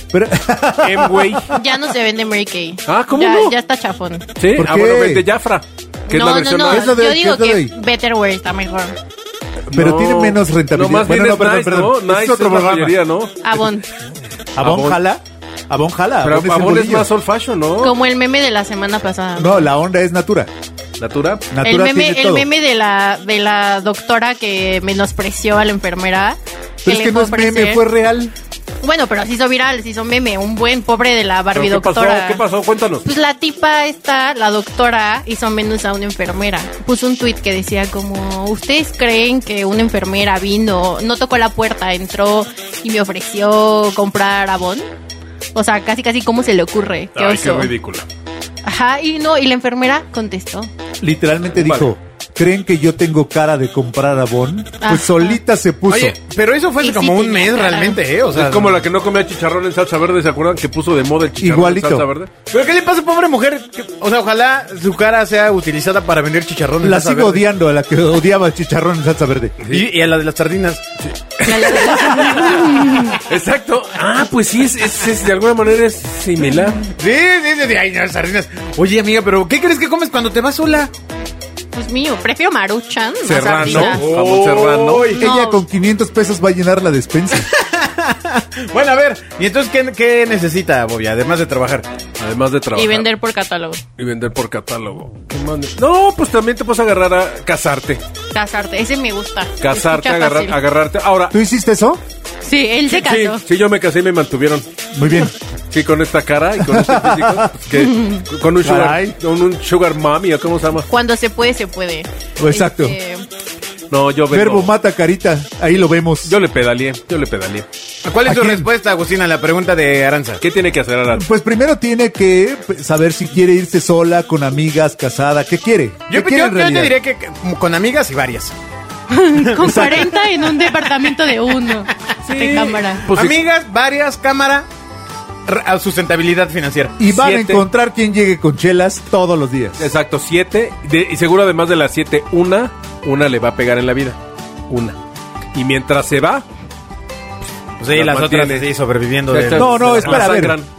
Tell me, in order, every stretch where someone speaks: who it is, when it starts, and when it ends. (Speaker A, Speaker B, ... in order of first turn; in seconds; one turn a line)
Speaker A: 0.1-1.6
Speaker B: 0.8-1.5
Speaker C: 1.5-4.2
Speaker B: 2.9-3.5
Speaker B: 4.4-7.0
Speaker A: 4.5-5.2
Speaker C: 6.1-8.9
Speaker A: 6.6-7.7
Speaker B: 9.7-13.7
Speaker A: 9.7-13.0
Speaker C: 13.4-13.8
Speaker A: 14.6-17.1
Speaker B: 14.6-15.0
Speaker B: 16.2-17.9
Speaker C: 17.8-19.7
Speaker A: 19.4-20.5
Speaker B: 21.0-21.5
Speaker A: 21.5-22.4
Speaker C: 21.6-27.8
Speaker A: 26.8-28.3
Speaker C: 28.8-32.4
Speaker B: 31.5-33.0
Speaker C: 33.0-44.9
Speaker C: 45.5-47.7
Speaker B: 47.1-48.0
Speaker C: 48.6-50.7
Speaker A: 51.0-56.1
Speaker B: 51.5-51.9
Speaker C: 54.8-55.4
Speaker D: 55.9-58.8
Speaker C: 56.8-58.0
Speaker B: 58.3-62.3
Speaker A: 61.4-62.1
Speaker D: 62.5-67.4
Speaker A: 66.8-69.6
Speaker D: 69.7-70.8
Speaker D: 71.4-72.8
Speaker C: 71.5-73.2
Speaker B: 73.1-76.8
Speaker D: 76.8-80.9
Speaker C: 81.7-84.1
Speaker B: 83.2-85.1
Speaker D: 83.6-85.2
Speaker C: 85.2-85.6
Speaker A: 85.2-87.5
Speaker D: 87.3-91.9
Speaker B: 92.2-93.1
Speaker C: 92.7-93.8
Speaker B: 94.0-98.0
Speaker C: 98.3-100.6
Speaker B: 99.6-101.3
Speaker A: 101.3-102.0
Speaker C: 102.4-103.4
Speaker B: 102.9-104.7
Speaker A: 104.9-105.3
Speaker B: 105.7-110.9
Speaker A: 106.6-107.5
Speaker A: 108.6-109.2
Speaker C: 110.9-113.2
Speaker A: 112.4-112.9
Speaker B: 113.9-114.7
Speaker A: 114.3-116.3
Speaker B: 116.2-117.7
Speaker D: 118.0-120.4
Speaker A: 118.2-118.7
Speaker B: 120.4-121.2
Speaker A: 121.1-126.9
Speaker D: 126.1-128.5
Speaker C: 129.1-133.0
Speaker A: 129.6-130.1
Speaker D: 129.6-130.7
Speaker D: 131.5-131.7
Speaker B: 132.2-133.4
Speaker D: 133.1-134.7
Speaker D: 135.5-136.9
Speaker A: 137.0-139.9
Speaker B: 137.0-137.6
Speaker B: 139.8-144.2
Speaker B: 144.7-144.9
Speaker B: 145.5-146.4
Speaker D: 147.8-150.3
Speaker B: 147.9-148.7
Speaker B: 149.3-150.7
Speaker A: 149.5-150.6